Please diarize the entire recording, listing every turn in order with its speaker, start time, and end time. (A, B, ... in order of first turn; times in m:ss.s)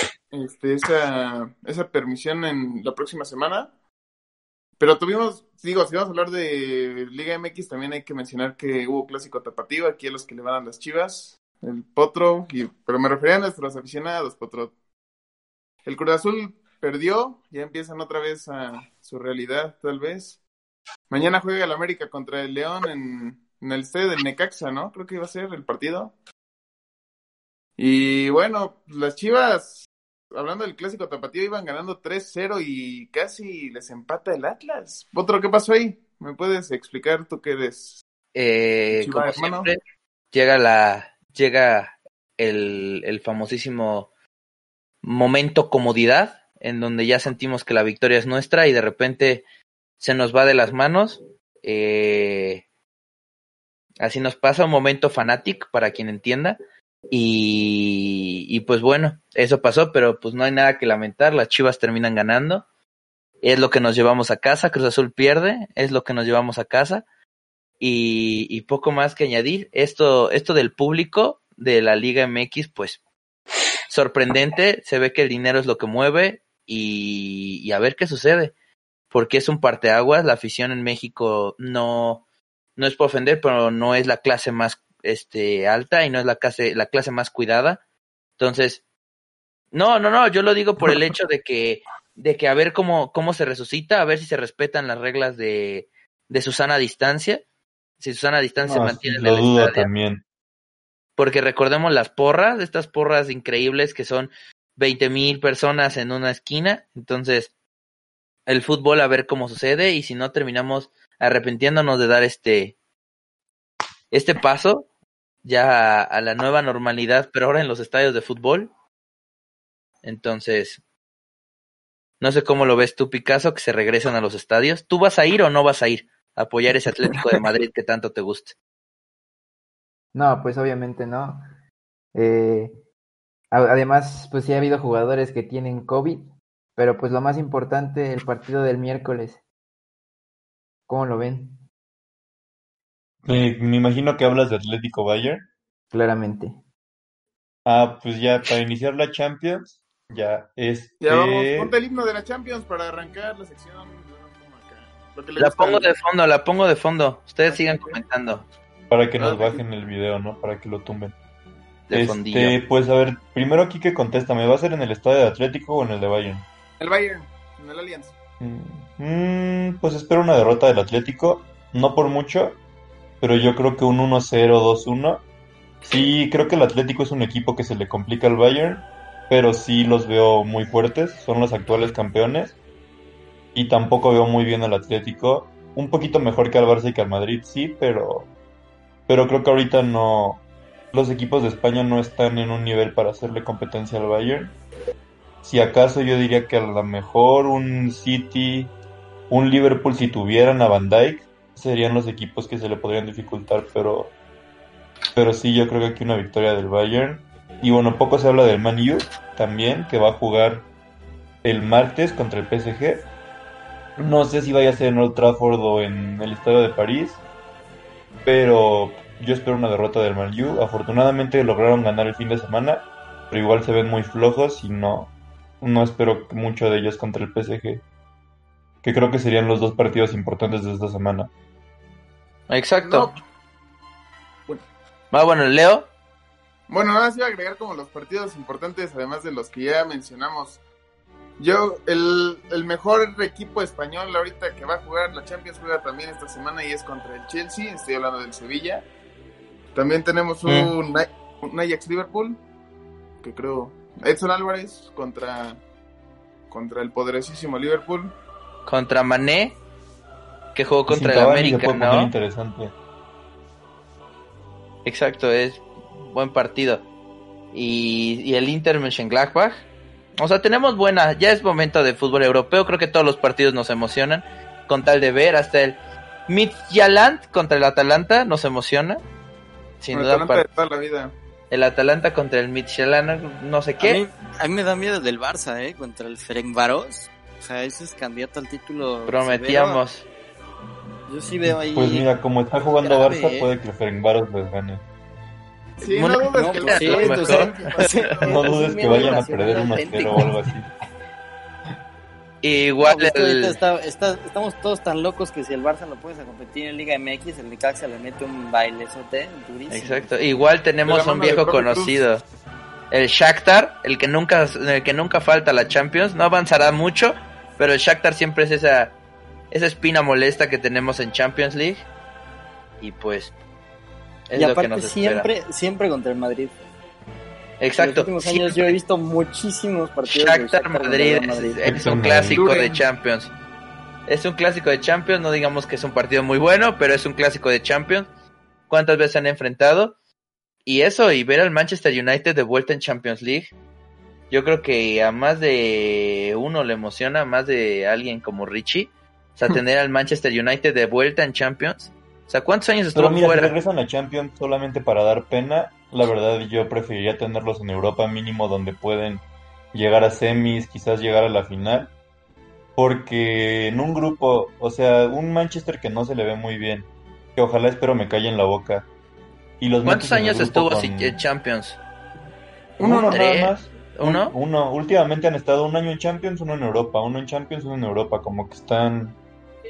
0:00.3-0:03.7 A
0:04.8-0:14.7 A
0:15.8-0:20.4 A
0:21.1-0:26.1 A
0:27.8-0:38.0 A
0:38.3-0:39.8 B
0:38.9-0:39.7 A
0:40.3-0:44.1 B
0:45.0-0:49.4 B
0:50.0-0:52.6 B
0:54.0-0:56.6 B
0:57.1-1:02.6 B
1:03.4-1:07.0 B
1:07.8-1:13.0 B
1:13.9-1:18.5 B
1:19.1-1:22.2 B
1:22.8-1:27.8 B
1:28.4-1:28.8 B
1:29.7-1:37.4 B
1:38.0-1:39.9 B
1:38.6-1:40.2 C
1:41.2-1:47.5 B
1:48.5-1:52.7 B
1:54.1-1:54.9 B
1:55.4-1:58.7 B
2:00.0-2:00.8 B
2:02.2-2:08.5 B
2:10.1-2:11.4 D
2:12.1-2:12.8 D
2:13.5-2:19.4 D
2:20.9-2:21.6 D
2:23.2-2:25.4 C
2:25.9-2:26.6 D
2:27.6-2:31.7 C
2:31.0-2:35.9 A
2:35.4-2:38.4 B
2:37.5-2:38.0 A
2:38.9-2:41.2 C
2:39.2-2:39.6 A
2:41.9-2:42.6 B
2:41.9-2:46.4 C
2:46.8-2:48.1 A
2:48.4-2:52.6 C
2:53.2-2:55.2 C
2:55.8-3:02.6 C
3:03.5-3:08.3 C
3:09.1-3:14.5 C
3:15.4-3:18.7 C
3:19.3-3:24.1 C
3:25.1-3:30.7 C
3:31.4-3:33.1 C
3:34.0-3:37.2 C
3:38.2-3:47.8 C
3:48.8-3:51.3 C
3:52.5-3:53.1 B
3:52.8-3:53.2 A
3:55.1-3:55.9 B
3:56.7-4:00.6 A
4:01.4-4:08.8 A
4:09.7-4:12.4 A
4:10.4-4:10.7 B
4:13.2-4:15.6 A
4:16.5-4:18.1 A
4:18.6-4:19.6 B
4:20.5-4:22.1 B
4:20.9-4:22.7 C
4:24.8-4:26.8 B
4:27.5-4:29.7 B
4:30.2-4:39.0 B
4:39.8-4:40.4 B
4:39.9-4:41.1 A
4:41.5-4:44.0 B
4:43.8-4:49.8 E
4:49.0-4:50.0 B
4:51.1-4:52.1 E
4:51.4-4:54.8 C
4:52.8-4:53.5 E
4:55.8-4:59.6 A
4:55.8-4:58.1 B
4:56.3-5:00.3 E
4:58.2-5:00.7 C
5:02.4-5:03.6 B
5:02.8-5:10.2 E
5:09.7-5:12.2 B
5:10.8-5:12.0 A
5:12.9-5:18.9 B
5:19.5-5:21.9 B
5:22.8-5:23.3 B
5:24.3-5:25.3 B
5:24.3-5:26.6 E
5:27.6-5:28.7 B
5:27.8-5:31.8 E
5:30.1-5:33.3 B
5:31.6-5:32.4 C
5:32.2-5:32.8 A
5:34.1-5:38.1 B
5:38.7-5:40.0 B
5:40.6-5:43.5 B
5:44.3-5:53.5 B
5:52.9-6:01.9 C
6:02.8-6:08.9 C
6:09.6-6:11.2 C
6:09.8-6:11.8 B
6:12.8-6:19.2 C
6:12.8-6:13.1 A
6:12.8-6:14.3 B